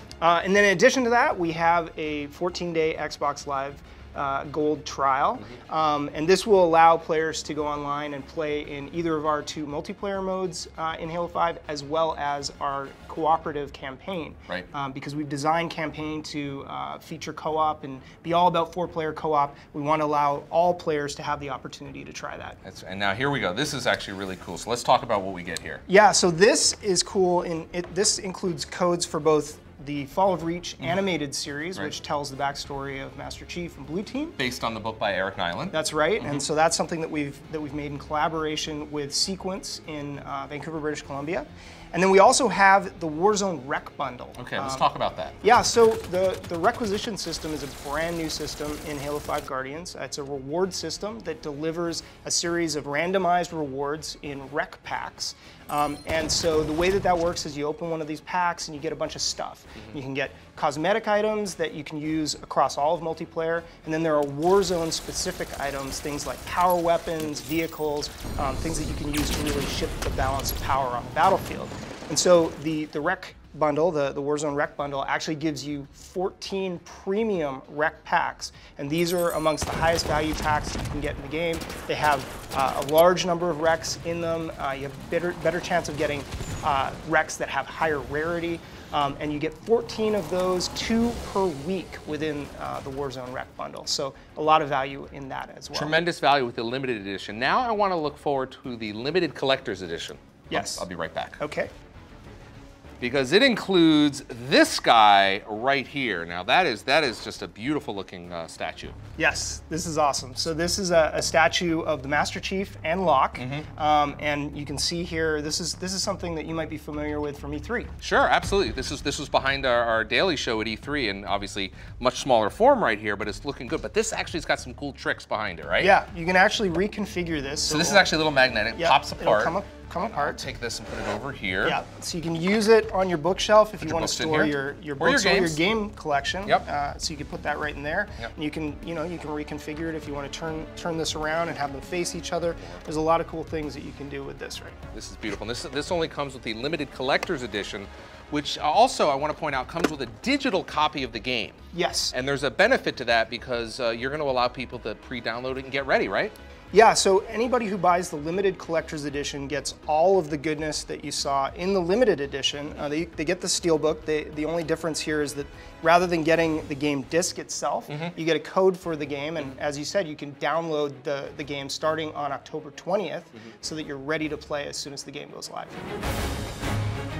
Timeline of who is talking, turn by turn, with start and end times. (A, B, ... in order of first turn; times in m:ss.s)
0:00.2-0:22.6 A
0:22.6-0:25.8 B
0:25.9-0:34.4 A
0:34.4-0:36.4 B
0:35.7-0:44.9 A
0:44.4-0:45.4 B
0:45.4-1:36.0 A
1:35.7-1:41.4 B
1:40.5-1:40.8 A
1:41.4-1:41.7 A
1:43.0-1:49.0 B
1:49.2-1:57.9 A
1:53.4-1:53.7 B
1:58.0-2:05.9 B
2:05.8-2:08.1 A
2:07.7-2:11.8 B
2:08.7-2:10.4 A
2:11.6-2:24.8 A
2:13.8-2:15.6 B
2:24.9-2:31.6 B
2:31.7-2:32.1 A
2:32.1-2:36.3 B
2:36.7-2:55.8 A